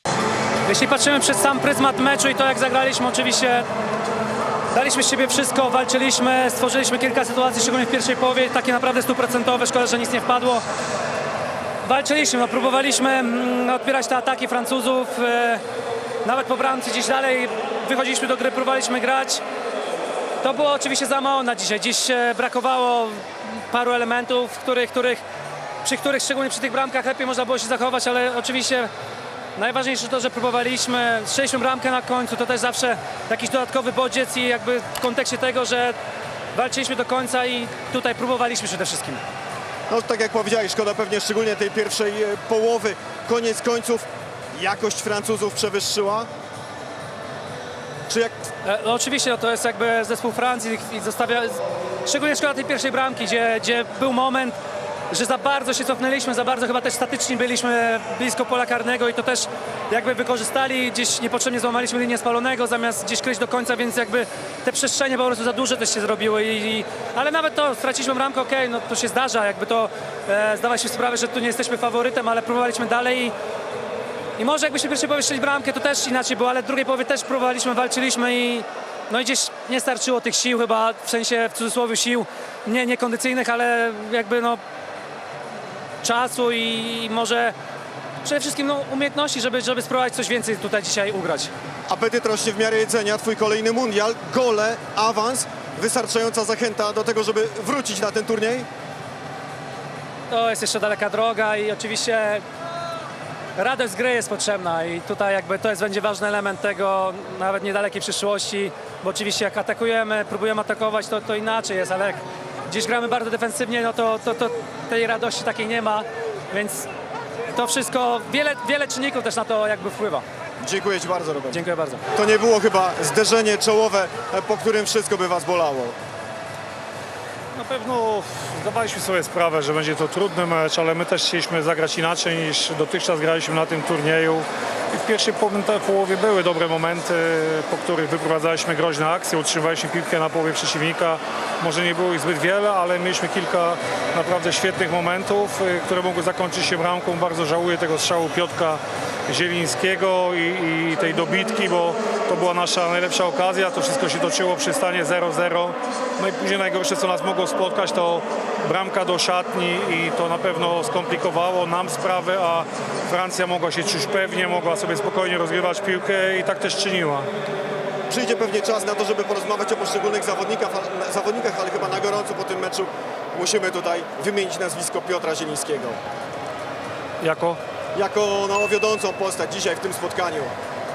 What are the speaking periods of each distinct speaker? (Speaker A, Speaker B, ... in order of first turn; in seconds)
Speaker A: 0.7-3.7, 4.7-10.6, 11.8-15.6, 16.2-19.4, 20.4-25.2, 25.8-28.9, 29.6-36.0, 36.5-39.2, 48.6-54.6, 55.1-73.3, 74.4-84.6, 86.0-87.5, 88.2-91.5, 100.3-102.4, 103.6-116.9, 117.5-120.2, 121.5-122.0
Speaker B: 39.9-46.3, 48.1-48.3, 91.9-98.7, 120.6-121.6, 122.1-126.0, 168.1-176.0, 177.9-180.5
Speaker C: 127.5-167.3, 177.2-177.6